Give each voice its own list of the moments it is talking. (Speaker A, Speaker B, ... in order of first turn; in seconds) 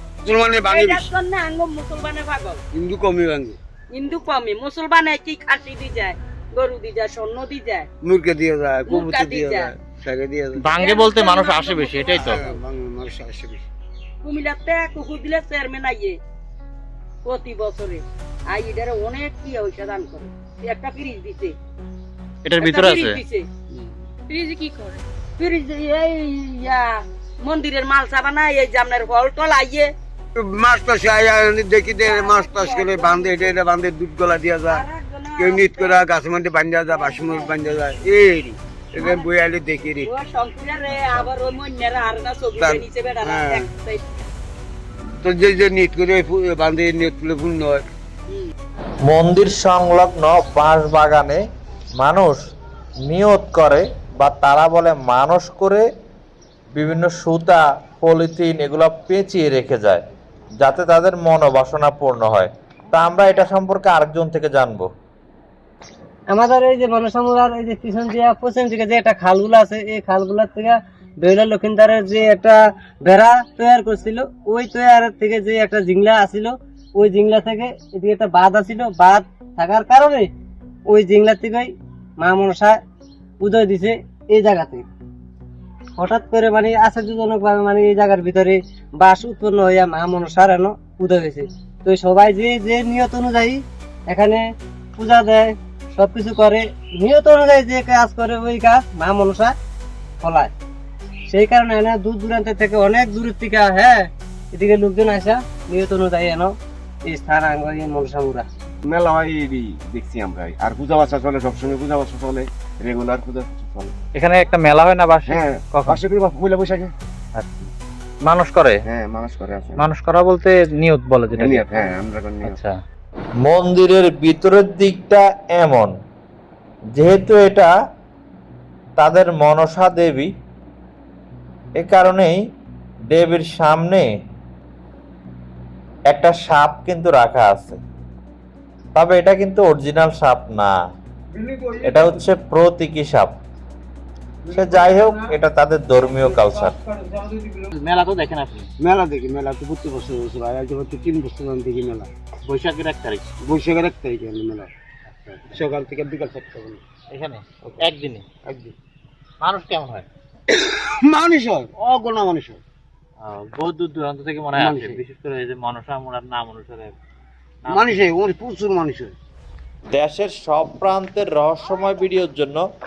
Speaker A: 0.2-1.1, 2.7-3.6, 8.0-10.6, 12.1-13.7, 30.4-34.8, 35.4-40.1, 42.6-43.6, 45.2-47.9, 148.8-152.1, 153.5-154.7, 155.5-156.8, 158.4-158.7, 160.5-162.6, 164.6-164.9, 167.7-169.1
Speaker B: 0.6-2.6, 3.9-7.9, 8.9-9.7, 10.8-12.6, 14.2-16.2, 17.2-21.5, 22.6-23.5, 24.3-29.9, 32.0-33.6, 34.7-36.1, 36.9-37.5, 39.0-39.3, 40.0-44.2
Speaker C: 10.6-12.4, 22.4-23.2, 114.2-116.0, 117.3-117.7, 118.2-118.8, 119.8-121.6, 122.4-122.7, 147.7-148.7, 152.4-153.3, 155.2-155.6, 157.1-158.2, 159.4-160.1, 163.2-166.9, 167.7-167.9
Speaker D: 49.1-51.4, 52.0-52.4, 53.1-55.8, 56.8-60.0, 60.6-64.9, 123.5-125.9, 126.9-127.7, 129.0-130.3, 131.8-132.4, 133.1-134.1, 136.1-137.8, 138.9-140.7, 141.8-143.3, 144.5-146.8, 169.9-172.6
Speaker E: 66.3-80.3, 80.9-82.8, 83.4-84.8, 86.0-94.4, 95.0-99.5, 100.2-100.5, 101.3-106.5, 107.0-108.4
Speaker F: 108.8-113.9, 115.2-116.9, 118.8-119.9, 121.3-122.6